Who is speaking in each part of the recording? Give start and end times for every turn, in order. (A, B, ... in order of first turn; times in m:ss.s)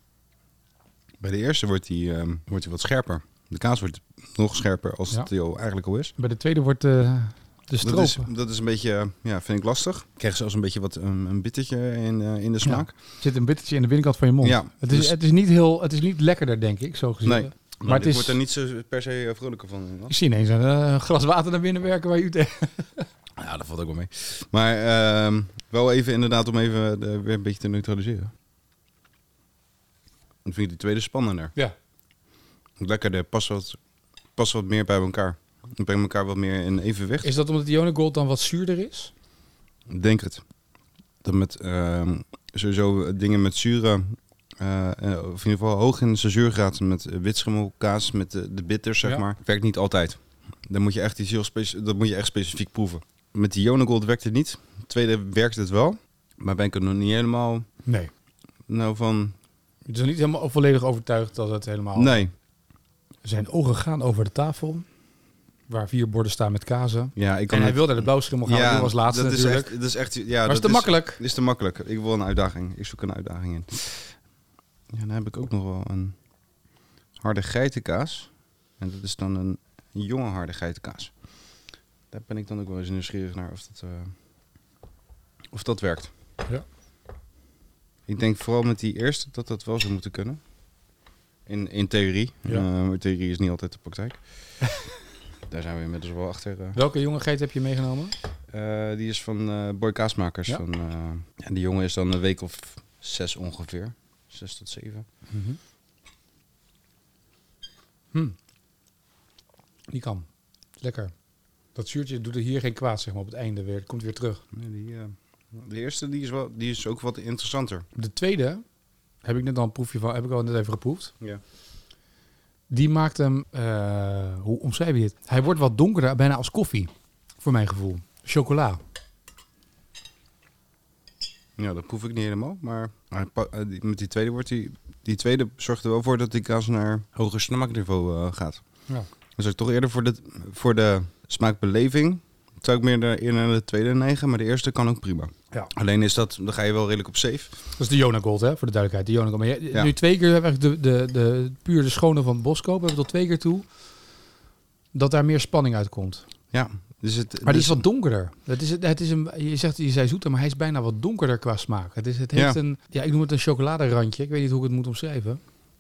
0:01.2-0:06.1 A
0:06.2-0:08.3 B
0:07.8-0:12.9 A
0:12.6-0:18.4 B
0:14.4-0:15.1 A
0:17.2-0:20.2 A
0:20.1-0:23.1 B
0:23.4-0:28.3 A
0:30.4-0:31.5 A
0:32.8-0:33.8 A
0:34.4-0:37.3 A
0:37.2-0:39.1 B
0:39.9-0:40.4 A
0:41.2-0:57.6 A
0:57.9-0:58.1 B
0:58.7-0:59.3 A
0:59.9-1:02.2 B
1:02.0-1:02.3 A
1:03.2-1:04.8 B
1:05.7-1:09.7 B
1:07.2-1:14.2 A
1:10.4-1:11.2 B
1:14.9-1:16.2 A
1:17.2-1:21.1 A
1:22.1-1:24.1 A
1:25.5-1:26.1 A
1:28.1-1:30.4 A
1:31.5-1:34.2 A
1:35.5-1:36.8 A
1:36.8-1:38.2 B
1:38.5-1:45.1 A
1:45.3-1:45.6 B
1:49.9-1:50.3 B
1:50.8-1:51.1 B
1:51.8-1:54.4 B
1:54.5-1:57.9 A
1:58.0-1:58.6 B
1:59.2-2:01.1 B
2:02.7-2:08.8 B
2:11.6-2:18.6 A
2:19.4-2:27.6 A
2:27.8-2:33.6 B
2:34.9-2:36.2 B
2:36.5-2:37.8 A
2:37.4-2:45.4 B